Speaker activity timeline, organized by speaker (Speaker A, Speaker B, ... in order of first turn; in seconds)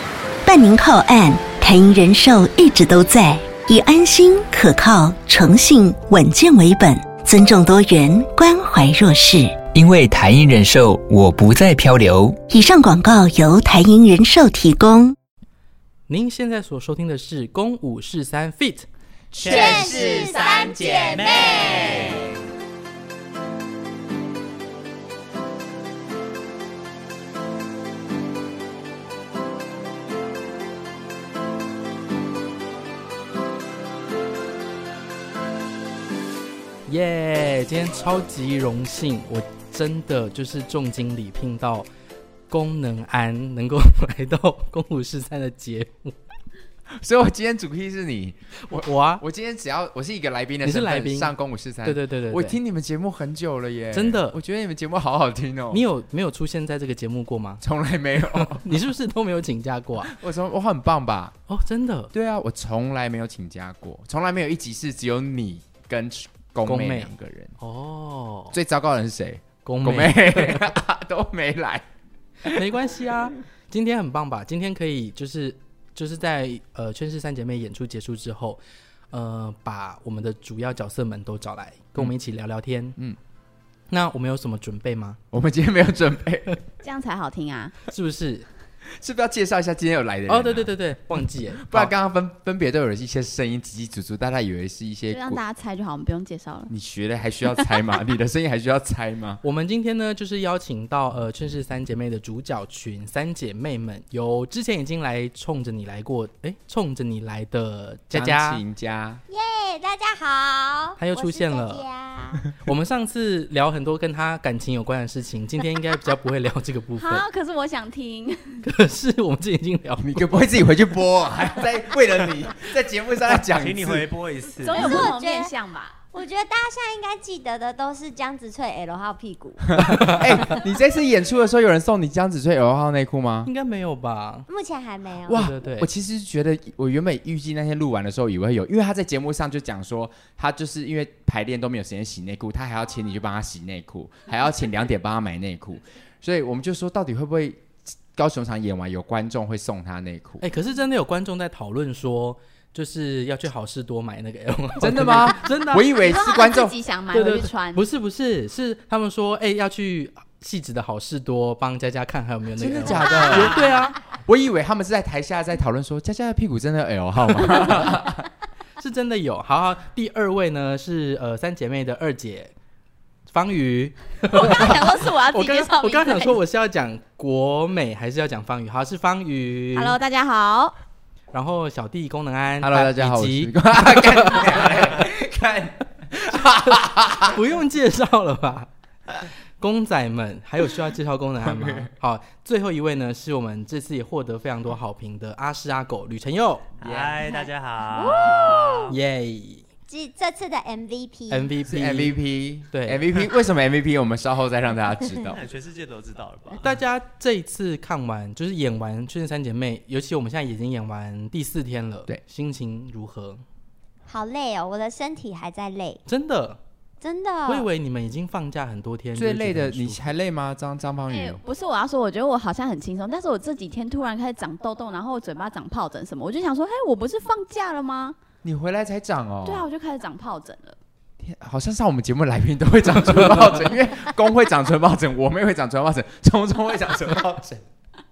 Speaker A: 0.4-9.6, 12.5-15.2
Speaker B: 9.7-12.4
Speaker C: 16.1-18.9, 36.9-41.9, 42.5-46.2, 48.5-49.2, 50.6-52.6, 53.9-54.4, 55.7-57.6, 58.2-60.1, 61.5-62.1, 66.6-68.6, 69.6-70.7, 72.4-83.0, 83.9-85.2, 87.9-88.5, 90.3-91.9, 99.4-108.6, 111.0-111.9, 112.6-117.2, 118.6-120.4, 129.9-130.2, 133.4-134.5, 135.3-135.9, 150.4-155.9, 157.1-164.0, 167.7-168.0, 168.8-172.5, 173.3-180.0, 181.3-185.0, 186.3-188.7, 189.6-196.8, 198.9-199.7, 201.3-202.2, 202.7-203.0, 206.6-213.4, 216.1-216.6, 217.4-220.2
Speaker D: 19.3-22.2, 123.5-125.0, 163.3-163.7, 196.8-199.0, 205.1-206.6
Speaker E: 19.4-22.2, 109.3-112.4, 124.6-125.5, 126.1-130.6, 134.5-135.4, 197.3-198.9, 199.9-201.5, 214.1-216.0, 217.0-217.7
Speaker F: 47.0-55.9, 57.6-58.6, 60.1-61.4, 62.1-67.5, 68.5-71.8, 85.3-86.6, 88.9-90.8, 91.6-95.4, 96.7-99.4, 108.1-109.2, 120.0-124.1, 129.8-133.5, 135.3-150.4, 154.8-156.7, 162.6-168.3, 182.6-187.4, 191.4-191.9, 196.8-197.2, 201.6-205.4, 219.1-221.4, 228.4-229.7, 231.2-237.6
Speaker G: 86.8-87.7, 95.1-96.7, 117.0-118.6, 124.6-126.0, 155.8-157.8, 162.9-163.6, 174.3-176.4, 179.7-180.8, 221.1-228.2, 229.4-230.8